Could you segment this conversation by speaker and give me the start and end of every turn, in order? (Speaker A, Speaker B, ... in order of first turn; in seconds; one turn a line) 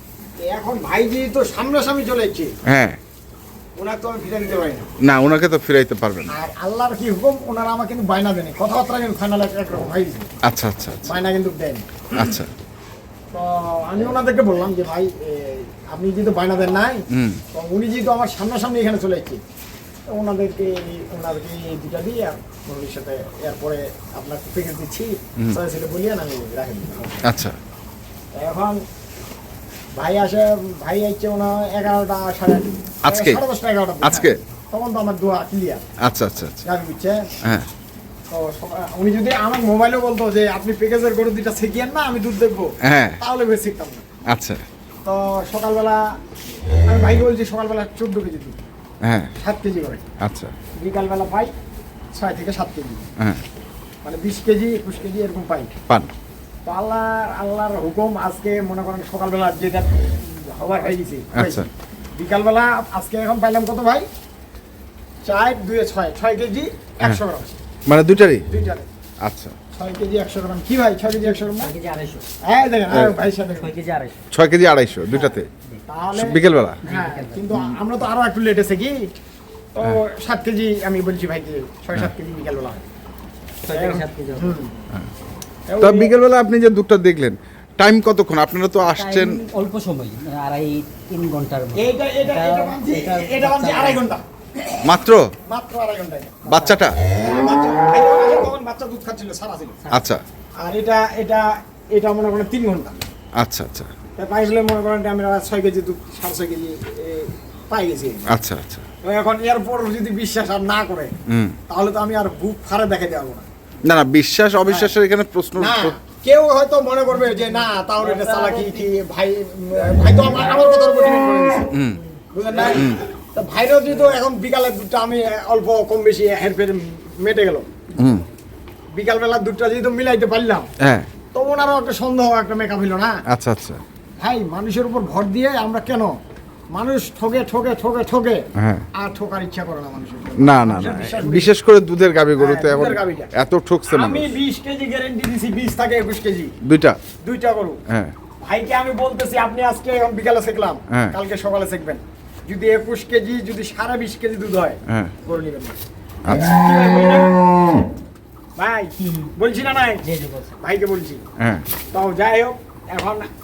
Speaker A: 0.4-2.5
Speaker B: 2.7-3.0
Speaker A: 3.8-4.9
Speaker B: 5.0-6.3
Speaker A: 6.3-10.3
Speaker B: 10.4-11.1
Speaker A: 11.1-11.8
Speaker B: 12.1-12.5
Speaker A: 13.3-19.4
Speaker B: 17.1-17.4
Speaker A: 20.1-27.2
Speaker B: 27.2-27.6
Speaker A: 28.3-28.8
Speaker A: 29.9-35.8
Speaker B: 33.0-33.4
Speaker B: 34.0-34.4
Speaker B: 36.0-36.6
Speaker A: 36.6-37.3
Speaker A: 38.3-44.0
Speaker B: 42.8-43.2
Speaker B: 44.3-44.6
Speaker A: 45.0-46.0
Speaker A: 46.9-48.6
Speaker B: 49.0-49.3
Speaker A: 49.4-50.0
Speaker B: 50.2-50.5
Speaker A: 50.8-51.5
Speaker A: 52.1-53.0
Speaker A: 54.0-55.7
Speaker A: 56.6-64.0
Speaker B: 61.3-61.7
Speaker A: 65.2-67.6
Speaker B: 67.9-68.5
Speaker A: 68.5-68.9
Speaker B: 69.2-69.5
Speaker A: 69.7-71.7
Speaker C: 71.2-72.2
Speaker A: 72.4-73.7
Speaker B: 72.9-73.1
Speaker C: 73.5-74.2
Speaker B: 74.3-75.5
Speaker A: 75.1-75.4
Speaker A: 75.9-79.1
Speaker B: 76.2-76.8
Speaker C: 76.8-77.6
Speaker A: 79.7-82.8
Speaker C: 83.6-84.6
Speaker A: 83.7-84.7
Speaker A: 85.7-86.1
Speaker B: 85.8-89.4
Speaker C: 88.8-94.1
Speaker A: 91.8-94.2
Speaker B: 94.8-95.3
Speaker A: 95.5-96.6
Speaker B: 96.5-97.0
Speaker C: 96.5-96.8
Speaker A: 97.1-99.8
Speaker B: 99.9-100.2
Speaker A: 100.6-103.0
Speaker B: 103.4-103.9
Speaker A: 104.2-108.3
Speaker B: 108.3-108.8
Speaker A: 109.0-111.1
Speaker B: 111.3-111.5
Speaker A: 111.7-113.5
Speaker B: 113.8-115.9
Speaker A: 114.7-114.9
Speaker A: 115.6-121.7
Speaker C: 117.3-118.9
Speaker B: 121.7-122.0
Speaker A: 122.3-127.6
Speaker C: 122.5-122.8
Speaker B: 122.7-123.0
Speaker B: 128.0-128.2
Speaker A: 128.9-130.7
Speaker B: 130.8-131.1
Speaker A: 131.3-133.1
Speaker B: 133.3-133.8
Speaker A: 134.2-136.1
Speaker A: 136.7-138.4
Speaker B: 138.6-138.9
Speaker A: 139.0-141.5
Speaker B: 140.4-144.3
Speaker A: 142.4-143.3
Speaker A: 143.9-146.5
Speaker B: 146.6-147.0
Speaker A: 147.2-147.8
Speaker B: 147.9-148.1
Speaker A: 148.4-155.8
Speaker B: 150.9-151.2
Speaker B: 154.9-155.1
Speaker B: 156.2-156.5
Speaker A: 156.4-157.3
Speaker A: 158.6-160.0
Speaker C: 159.0-159.3
Speaker C: 160.0-160.6
Speaker A: 160.6-161.2
Speaker B: 161.4-161.7
Speaker A: 161.9-163.3